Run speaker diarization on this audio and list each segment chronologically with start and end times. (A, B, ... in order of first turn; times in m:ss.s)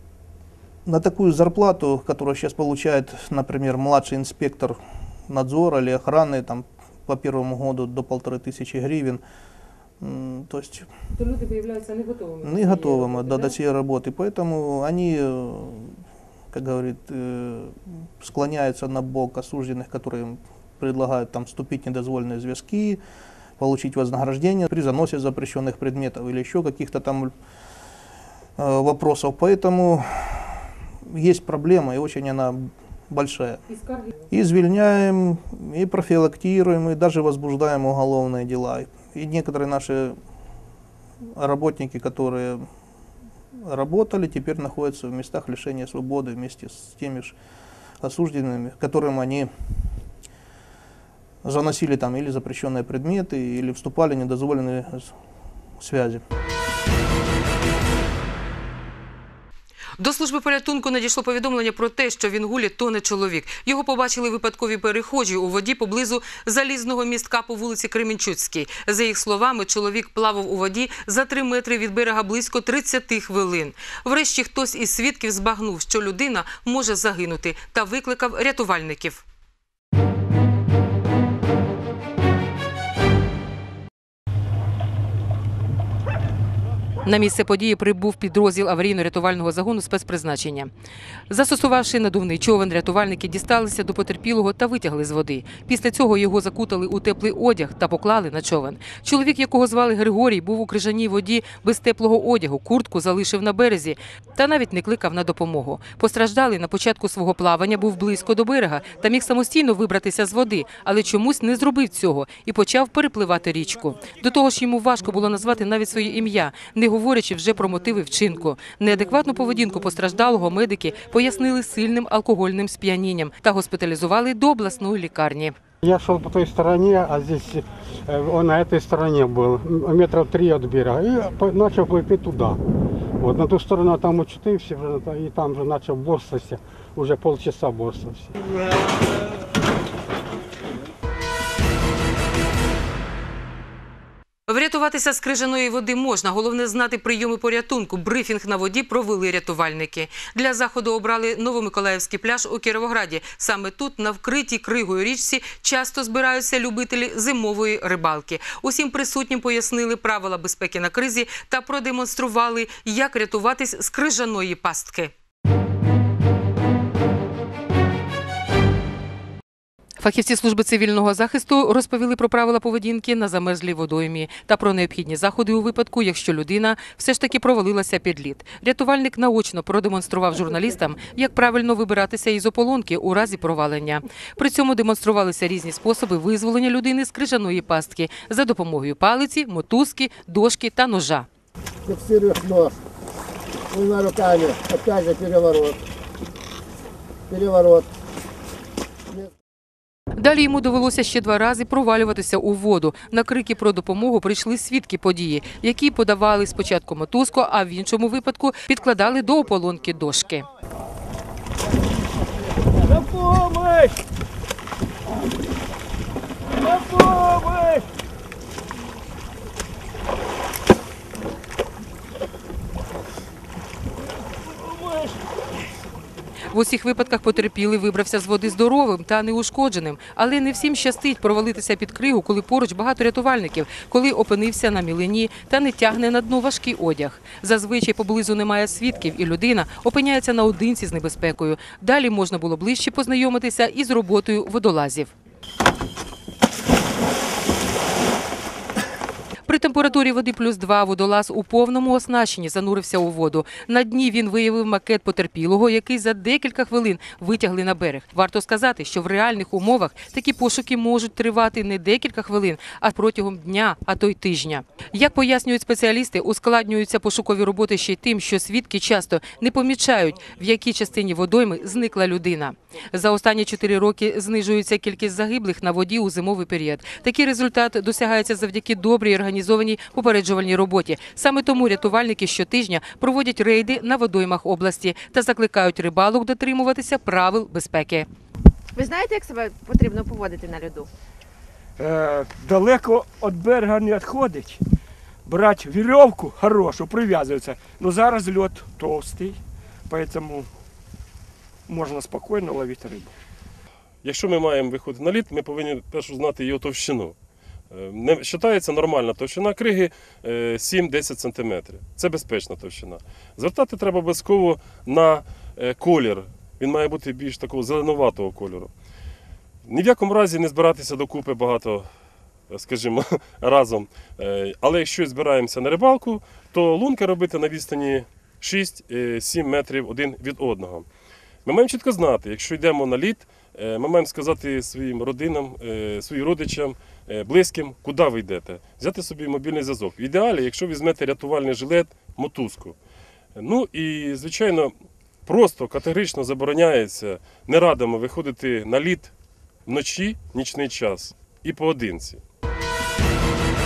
0:00.8-0:09.2 A
0:10.0-0:10.9 A
0:11.2-0:13.5 B
0:12.4-0:15.9 A
0:16.5-0:23.0 A
0:23.6-0:27.3 A
0:28.6-0:30.6 A
0:31.1-0:33.6 A
0:33.7-0:34.1 B
0:34.3-0:40.2 A
0:41.4-0:42.7 A
0:43.6-0:47.4 A
0:48.0-0:49.5 A
0:51.4-0:55.2 A
0:55.8-0:56.2 A
1:00.0-1:19.2 B
1:27.0-1:30.7 B
1:31.3-2:05.5 B
2:05.8-2:12.6 C
2:13.2-2:18.3 C
2:24.5-2:45.1 B
2:50.0-3:11.3 B
3:11.9-3:12.7 D
3:13.7-3:15.8 D
3:17.3-3:17.8 D
3:20.2-3:30.4 B
3:33.1-3:33.9 E
3:36.9-3:37.7 E
3:46.5-4:05.1 B
4:09.5-4:48.1 B
4:48.8-4:50.9 F
4:51.8-4:54.6 E
4:55.2-5:00.5 E
5:01.7-5:03.1 E
5:04.0-5:07.1 G
5:07.7-5:18.7 G
5:19.6-5:21.9 G
5:22.5-5:30.8 G
5:31.4-5:42.8 G
5:43.4-5:44.7 G
5:45.2-5:49.1 G
5:49.6-5:52.2 G